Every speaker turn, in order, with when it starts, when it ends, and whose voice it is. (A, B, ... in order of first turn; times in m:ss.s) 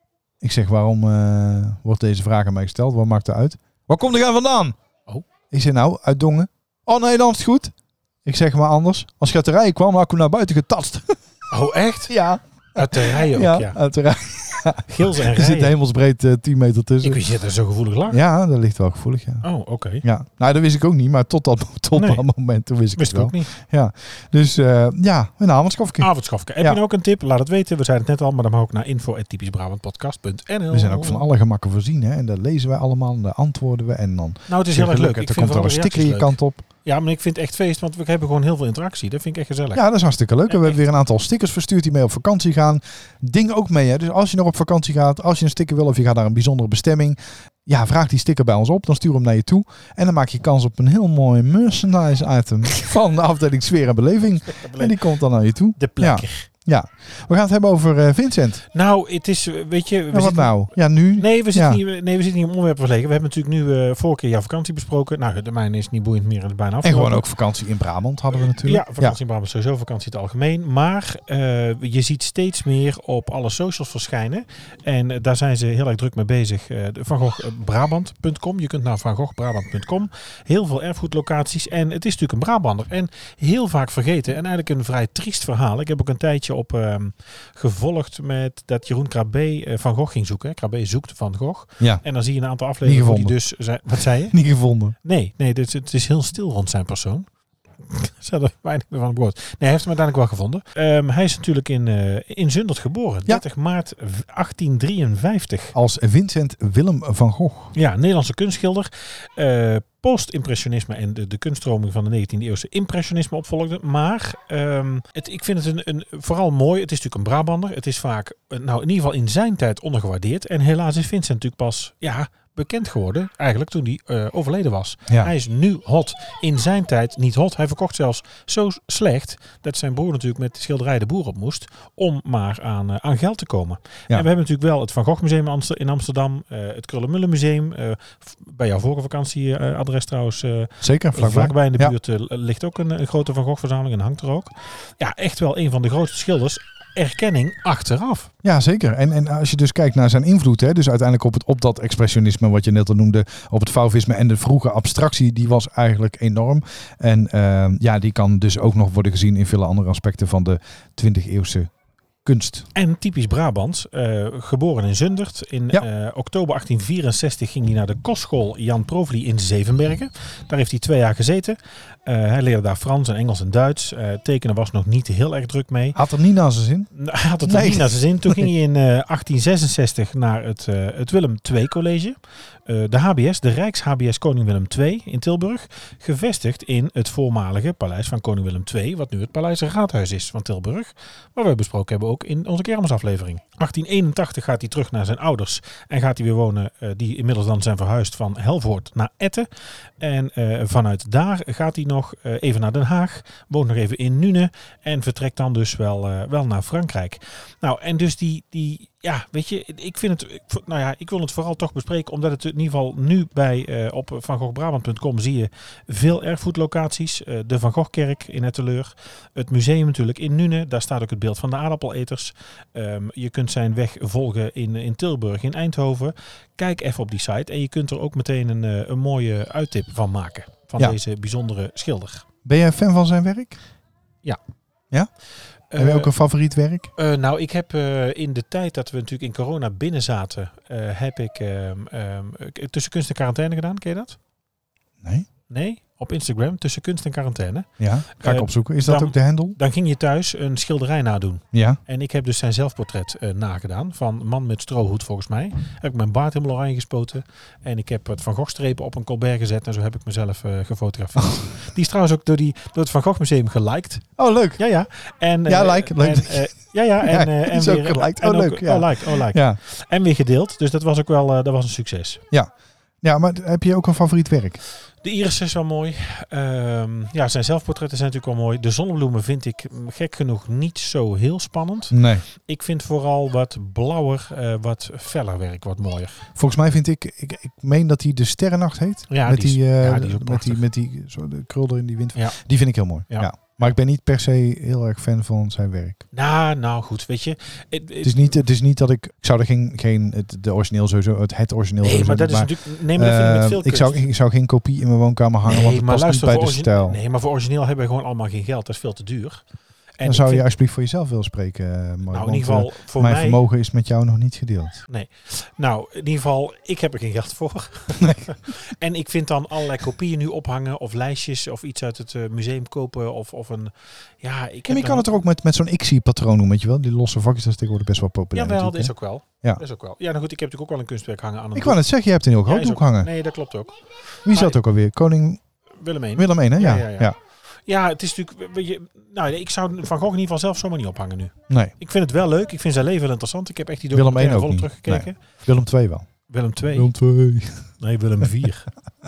0:00.4-0:04.8 A
0:05.5-0:07.7 A
0:08.2-0:11.2 A
0:11.5-0:12.2 B
0:12.1-0:17.2 A
0:12.8-0:13.8 B
0:14.9-0:15.7 B
0:17.0-0:18.2 B
0:18.1-0:19.4 A
0:19.4-0:20.0 B
0:20.0-0:26.1 A
0:21.9-0:22.2 B
0:23.0-0:23.5 B
0:26.0-0:31.3 B
0:30.7-0:36.6 A
0:34.5-0:39.8 B
0:39.7-0:58.6 A
0:40.5-0:40.8 B
0:54.5-0:55.0 B
0:55.8-0:56.5 B
0:58.7-1:07.3 B
1:00.1-1:01.8 A
1:06.8-1:09.2 A
1:08.4-1:34.4 B
1:32.8-1:33.4 A
1:34.3-1:35.0 A
1:35.0-1:37.3 B
1:37.8-1:45.8 B
1:45.8-1:47.7 A
1:47.8-2:28.3 B
2:20.8-2:22.0 A
2:28.4-2:41.7 A
2:42.2-2:42.7 A
2:42.8-2:56.0 B
2:56.0-2:56.9 A
2:56.9-3:52.2 B
2:57.4-2:58.5 A
3:52.4-3:53.6 A
3:55.7-3:56.1 B
3:55.8-3:56.9 A
3:57.0-4:04.2 B
4:05.0-4:05.3 A
4:05.5-4:32.2 B
4:07.8-4:09.6 A
4:11.5-4:11.8 A
4:24.2-4:24.6 A
4:25.5-4:29.6 A
4:33.0-4:34.6 A
4:35.0-4:46.3 B
4:41.9-4:42.2 A
4:46.4-4:56.0 A
4:49.1-4:50.6 B
4:53.1-4:53.7 B
4:56.1-4:58.3 B
4:58.0-5:07.0 A
5:01.8-5:04.1 B
5:05.4-5:09.4 B
5:10.0-5:10.5 B
5:10.0-5:14.8 A
5:12.1-5:13.4 B
5:14.9-5:25.1 B
5:18.0-5:18.3 A
5:24.7-5:29.6 A
5:28.3-5:31.8 B
5:31.6-5:33.1 A
5:32.4-5:34.6 B
5:34.3-5:35.4 A
5:35.8-5:37.1 B
5:36.2-5:37.2 A
5:37.7-5:45.2 B
5:41.5-5:41.7 A
5:43.9-5:46.1 A
5:46.3-5:46.9 B
5:46.7-5:47.7 A
5:47.8-5:48.7 B